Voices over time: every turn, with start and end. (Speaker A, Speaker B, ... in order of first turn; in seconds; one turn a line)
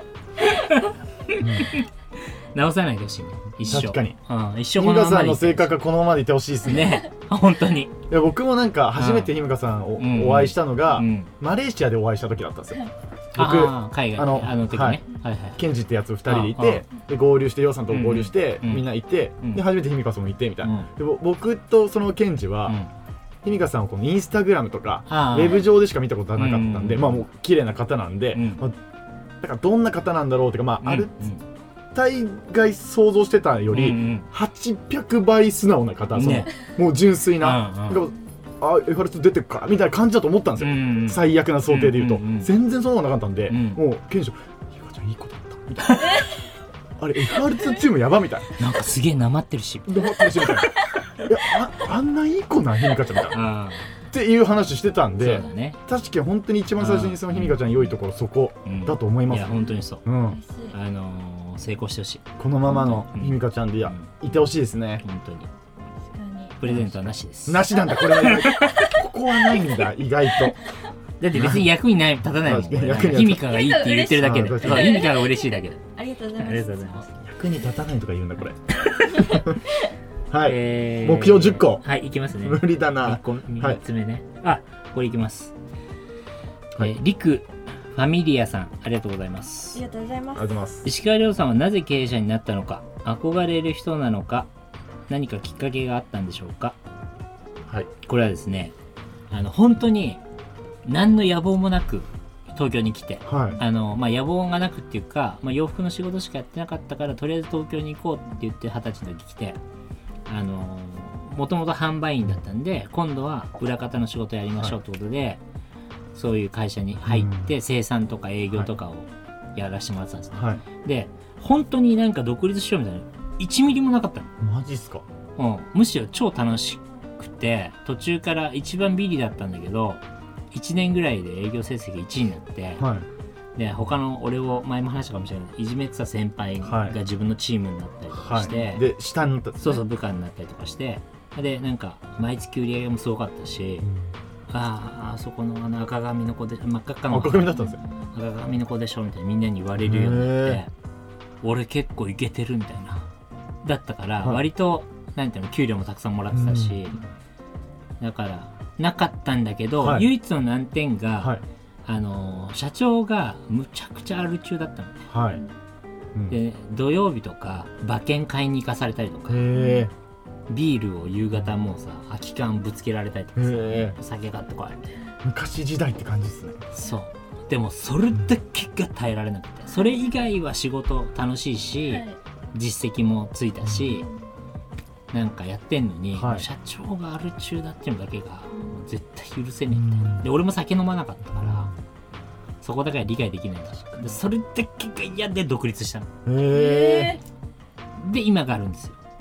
Speaker A: 0.4-5.7
Speaker B: 1.4-1.7
Speaker B: 3.6-4.2
Speaker B: 4.8-7.0
Speaker A: 6.6-8.0
Speaker B: 8.1-12.8
Speaker A: 8.9-9.3
Speaker A: 10.0-11.3
Speaker B: 13.3-15.0
Speaker A: 13.3-15.6
Speaker B: 15.6-22.8
Speaker A: 16.2-16.9
Speaker A: 17.9-18.9
Speaker A: 20.6-20.9
Speaker B: 23.4-28.8
Speaker A: 25.1-25.6
Speaker A: 26.4-27.2
Speaker A: 28.3-28.6
Speaker B: 29.4-31.3
Speaker A: 30.8-31.4
Speaker B: 31.9-46.0
Speaker A: 33.7-34.3
Speaker A: 36.1-36.5
Speaker A: 37.4-38.0
Speaker A: 40.6-42.5
Speaker A: 43.5-43.8
Speaker A: 45.8-46.2
Speaker B: 47.0-48.5
Speaker A: 48.6-50.5
Speaker B: 49.9-53.4
Speaker A: 53.3-53.9
Speaker B: 54.1-60.4
Speaker A: 55.2-55.8
Speaker A: 56.8-57.9
Speaker A: 58.6-60.0
Speaker C: 60.2-60.8
Speaker A: 60.7-64.2
Speaker B: 62.4-65.0
Speaker A: 65.0-65.5
Speaker C: 66.0-66.6
Speaker A: 66.6-68.9
Speaker B: 66.6-70.6
Speaker A: 71.2-75.8
Speaker B: 71.3-71.7
Speaker B: 72.4-73.5
Speaker C: 73.5-77.2
Speaker B: 74.1-75.0
Speaker A: 76.4-77.0
Speaker B: 77.2-78.6
Speaker A: 78.8-79.4
Speaker B: 79.2-79.6
Speaker B: 80.3-81.8
Speaker A: 80.4-85.5
Speaker B: 82.4-83.8
Speaker A: 86.8-89.8
Speaker C: 89.7-90.5
Speaker B: 90.3-90.9
Speaker A: 90.8-94.5
Speaker A: 95.1-96.8
Speaker A: 98.0-98.7
Speaker A: 99.3-100.2
Speaker A: 100.8-109.6
Speaker B: 103.2-103.6
Speaker A: 110.3-115.4
Speaker A: 116.1-124.3
Speaker B: 117.0-117.5
Speaker B: 120.3-120.6
Speaker B: 124.4-125.0
Speaker A: 125.4-132.8
Speaker B: 132.8-133.1
Speaker A: 133.6-138.8
Speaker B: 136.6-136.9
Speaker B: 138.1-139.8
Speaker A: 139.6-143.9
Speaker B: 143.8-144.1
Speaker A: 144.5-147.6
Speaker B: 147.1-147.8
Speaker C: 147.5-148.1
Speaker A: 148.1-150.7
Speaker B: 149.8-150.6
Speaker A: 151.4-153.1
Speaker A: 153.6-157.0
Speaker B: 156.3-156.9
Speaker A: 158.0-161.3
Speaker B: 159.8-160.1
Speaker A: 161.8-165.1
Speaker B: 165.1-165.4
Speaker A: 166.3-169.4
Speaker B: 169.3-169.9
Speaker C: 169.5-169.8
Speaker A: 170.5-174.9
Speaker B: 173.3-174.0
Speaker B: 175.2-176.6
Speaker A: 176.7-184.1
Speaker C: 179.7-180.1
Speaker C: 181.9-182.2
Speaker C: 183.9-184.2
Speaker A: 185.1-191.7
Speaker B: 186.1-186.5
Speaker C: 188.5-188.8
Speaker B: 189.7-190.3
Speaker B: 191.3-191.7
Speaker A: 192.6-196.1
Speaker B: 196.2-197.2
Speaker C: 196.5-197.2
Speaker A: 198.0-199.0